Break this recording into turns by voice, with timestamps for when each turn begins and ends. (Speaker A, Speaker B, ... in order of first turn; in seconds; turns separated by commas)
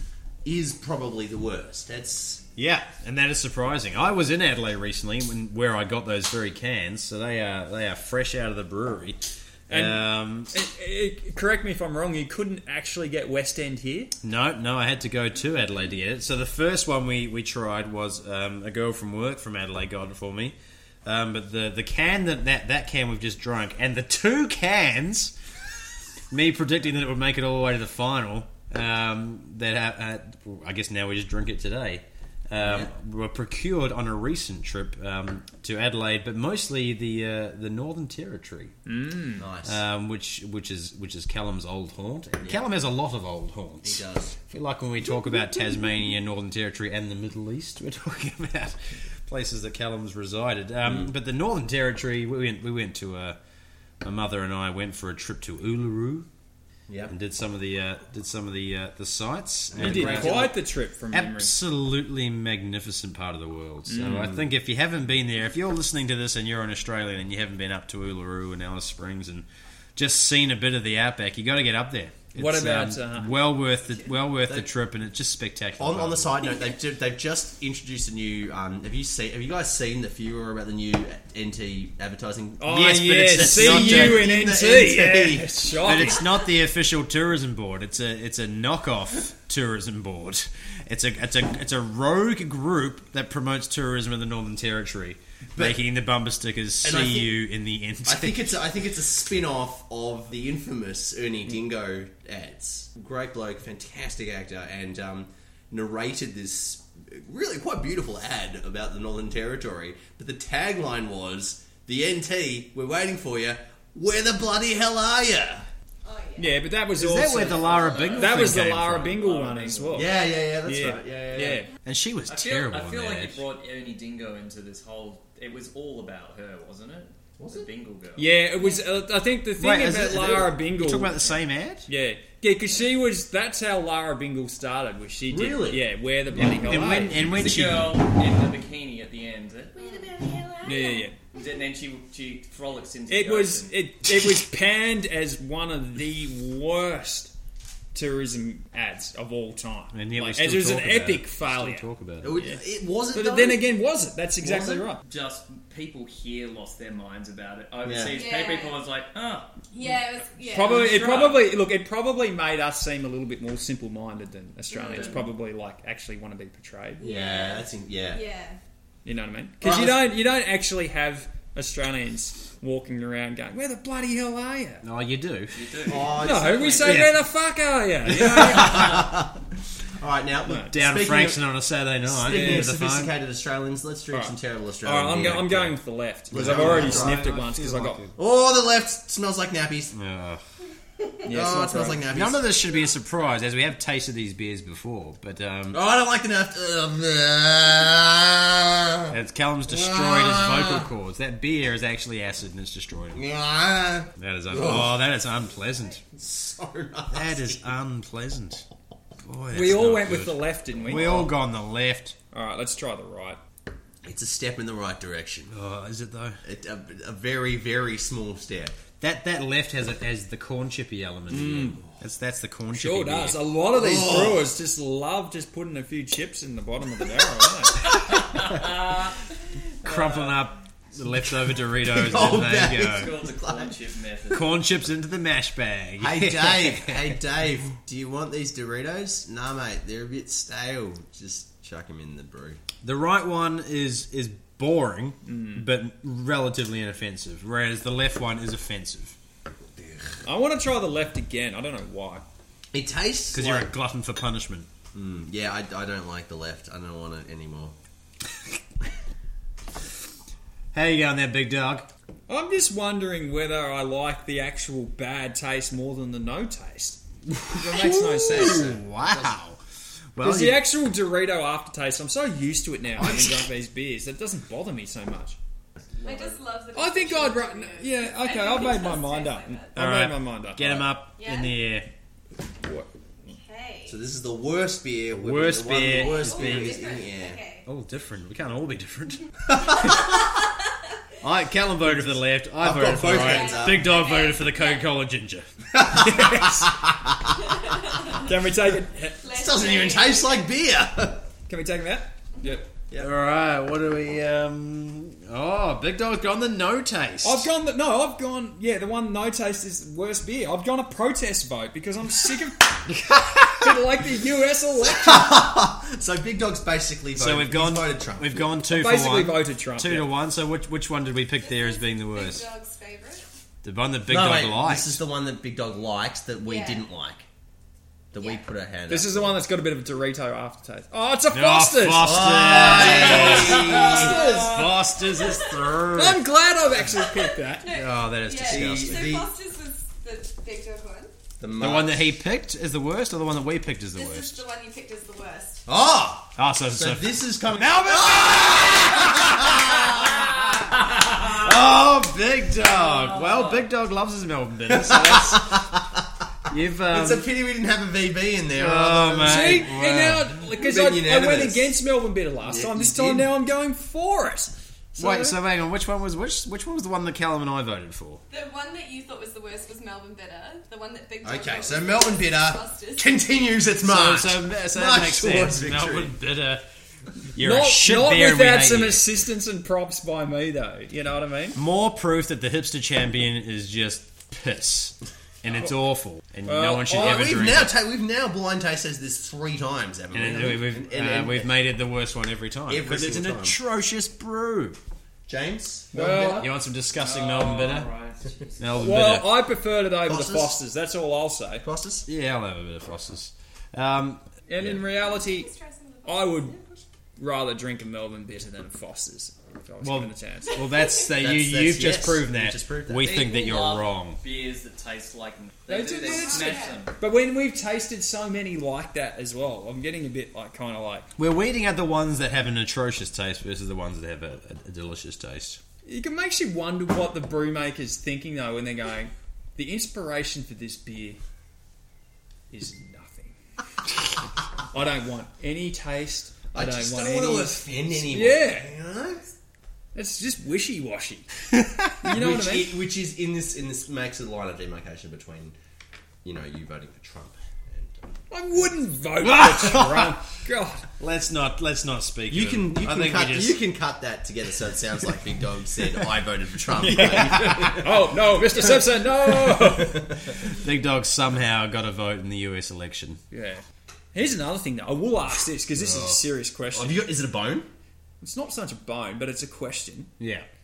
Speaker A: 0.4-2.4, Speaker B: 2.6-10.5, Speaker C: 9.7-14.1, Speaker B: 14.2-25.3, Speaker B: 26.3-38.8, Speaker A: 32.6-32.9, Speaker C: 38.9-39.5, Speaker A: 39.4-39.8, Speaker B: 39.6-53.4, Speaker A: 43.8-44.4, Speaker A: 50.8-51.1, Speaker B: 54.0-56.3, Speaker A: 56.9-57.1, Speaker B: 57.1-60.6, Speaker A: 59.7-60.5, Speaker C: 59.8-61.6, Speaker B: 61.1-76.5, Speaker C: 63.9-64.4, Speaker A: 64.0-64.4, Speaker C: 72.3-73.4, Speaker A: 75.8-82.8, Speaker C: 82.6-86.3, Speaker B: 82.7-84.3, Speaker A: 83.3-86.2, Speaker B: 85.8-98.6, Speaker A: 96.8-97.4, Speaker A: 98.0-115.7, Speaker D: 116.0-116.7, Speaker C: 116.4-120.1, Speaker B: 117.0-119.2, Speaker E: 117.3-120.3, Speaker A: 119.9-121.7, Speaker C: 120.6-121.7, Speaker B: 121.8-123.4, Speaker E: 122.3-128.3, Speaker A: 127.4-127.7, Speaker C: 128.2-137.2, Speaker D: 128.6-128.8, Speaker B: 129.6-131.9, Speaker A: 135.3-135.9, Speaker B: 136.3-138.0, Speaker E: 137.2-139.8, Speaker D: 139.7-141.1, Speaker C: 140.6-141.2, Speaker E: 141.3-143.8, Speaker C: 143.1-147.3, Speaker C: 147.9-152.6, Speaker B: 149.9-152.4, Speaker A: 152.2-153.7, Speaker C: 153.1-155.0, Speaker A: 154.4-154.9, Speaker E: 155.0-159.5, Speaker A: 157.8-158.2, Speaker D: 158.0-158.8, Speaker D: 159.7-161.0, Speaker C: 160.4-167.1, Speaker E: 160.5-161.5, Speaker D: 164.7-165.3, Speaker E: 164.8-165.2, Speaker D: 167.0-168.6, Speaker A: 167.0-168.2, Speaker C: 169.1-174.8, Speaker A: 169.6-170.2, Speaker B: 174.8-176.0, Speaker E: 175.5-177.1, Speaker A: 175.9-177.1, Speaker C: 176.2-179.0, Speaker B: 176.8-177.2, Speaker A: 178.1-179.4, Speaker B: 178.4-179.1, Speaker A: 180.0-181.5, Speaker C: 180.4-180.7, Speaker B: 180.5-183.1, Speaker A: 182.1-185.8, Speaker C: 182.3-182.7, Speaker C: 184.1-188.1, Speaker A: 186.3-187.3, Speaker B: 186.3-188.1, Speaker A: 188.2-189.9, Speaker B: 189.9-190.4, Speaker A: 191.2-192.5, Speaker C: 191.3-192.1, Speaker B: 192.1-195.8, Speaker A: 195.7-199.2, Speaker B: 199.1-203.2, Speaker A: 199.7-200.9, Speaker A: 203.2-205.0, Speaker B: 204.2-206.0, Speaker A: 206.1-207.6, Speaker B: 207.1-208.7, Speaker B: 209.2-212.2, Speaker C: 209.5-211.2, Speaker A: 210.9-211.3, Speaker C: 212.3-213.4, Speaker A: 214.0-215.5, Speaker B: 215.5-216.4, Speaker A: 216.4-218.8, Speaker B: 219.0-223.4, Speaker C: 221.3-221.8, Speaker C: 222.7-228.0, Speaker A: 223.7-224.5, Speaker E: 227.9-229.2, Speaker E: 229.8-230.5, Speaker B: 229.8-233.2, Speaker A: 231.8-233.8, Speaker E: 232.8-234.6, Speaker B: 234.3-237.2, Speaker A: 236.0-242.6, Speaker B: 242.8-249.2, Speaker C: 245.3-245.7, Speaker A: 249.8-250.1, Speaker C: 250.2-252.3, Speaker A: 252.7-253.7, Speaker B: 253.3-254.7, Speaker A: 254.9-257.8, Speaker B: 260.7-261.9, Speaker C: 262.3-268.8, Speaker B: 267.3-269.6, Speaker A: 268.4-269.3, Speaker B: 270.1-270.6, Speaker C: 270.2-275.4, Speaker A: 273.0-273.4, Speaker A: 276.0-276.4, Speaker D: 276.0-279.7, Speaker C: 276.8-280.9, Speaker B: 279.8-281.9, Speaker D: 281.2-281.6, Speaker C: 282.6-282.9, Speaker D: 283.3-284.0, Speaker A: 283.9-287.4, Speaker B: 285.1-286.8, Speaker D: 285.8-287.6, Speaker B: 287.7-289.2, Speaker A: 289.6-290.1, Speaker B: 291.2-296.5, Speaker A: 292.6-293.9, Speaker D: 293.0-294.9, Speaker A: 295.7-297.4, Speaker C: 296.1-296.7, Speaker D: 297.4-298.3, Speaker C: 298.2-299.3, Speaker D: 299.2-300.5, Speaker A: 299.3-301.3, Speaker C: 301.5-302.6, Speaker B: 303.0-307.5, Speaker C: 307.2-312.9, Speaker B: 312.9-313.7, Speaker C: 313.6-315.3, Speaker A: 314.9-318.6, Speaker B: 317.1-322.5, Speaker C: 318.7-320.2, Speaker D: 321.4-323.2, Speaker B: 323.6-325.0, Speaker A: 324.1-327.3, Speaker D: 326.4-326.8, Speaker A: 328.1-329.4, Speaker D: 328.2-328.4, Speaker C: 328.9-332.3, Speaker B: 331.3-336.3, Speaker A: 332.0-334.2, Speaker C: 332.8-334.7, Speaker D: 333.1-335.7, Speaker C: 335.9-337.7, Speaker D: 337.6-341.1, Speaker B: 337.6-339.2, Speaker A: 338.4-339.3, Speaker A: 341.4-342.1, Speaker B: 341.6-344.4, Speaker D: 343.9-345.6, Speaker A: 345.7-350.2, Speaker B: 346.4-355.7, Speaker E: 352.9-353.7, Speaker A: 354.7-356.1, Speaker B: 356.5-357.3, Speaker A: 356.9-359.7, Speaker B: 358.6-360.4, Speaker C: 359.2-365.4, Speaker A: 360.6-361.8, Speaker A: 362.4-363.3, Speaker B: 365.0-368.2, Speaker D: 368.3-373.2, Speaker A: 371.2-376.1, Speaker B: 373.8-376.6, Speaker B: 377.3-379.0, Speaker C: 377.4-381.6, Speaker B: 381.6-387.7, Speaker C: 386.4-387.3, Speaker A: 386.9-391.5, Speaker B: 390.1-394.8, Speaker C: 390.3-390.6, Speaker A: 392.7-393.6, Speaker A: 395.3-396.5, Speaker C: 395.9-396.5, Speaker B: 396.4-397.9, Speaker E: 396.9-399.0, Speaker B: 398.6-399.4, Speaker C: 398.8-401.6, Speaker A: 400.0-400.6, Speaker A: 401.6-402.1, Speaker B: 402.1-404.8, Speaker C: 404.5-405.5, Speaker D: 405.0-406.7, Speaker C: 406.1-406.6, Speaker C: 407.2-410.6, Speaker B: 409.8-414.2, Speaker A: 411.1-413.2, Speaker E: 413.0-417.0, Speaker C: 415.7-421.1, Speaker D: 416.0-416.9, Speaker B: 421.2-425.6, Speaker C: 425.9-431.2, Speaker C: 432.5-433.4, Speaker C: 434.7-438.7, Speaker A: 436.5-439.3, Speaker C: 439.9-441.3, Speaker C: 442.0-442.8, Speaker A: 442.0-445.6, Speaker A: 446.2-448.0, Speaker C: 448.3-450.9, Speaker B: 449.2-450.2, Speaker B: 451.0-453.6, Speaker A: 452.3-460.3, Speaker C: 456.8-460.2, Speaker B: 460.4-463.2, Speaker C: 463.3-463.6, Speaker C: 464.1-467.0, Speaker B: 465.8-466.2, Speaker A: 466.7-467.7, Speaker C: 468.2-470.1, Speaker B: 470.2-470.5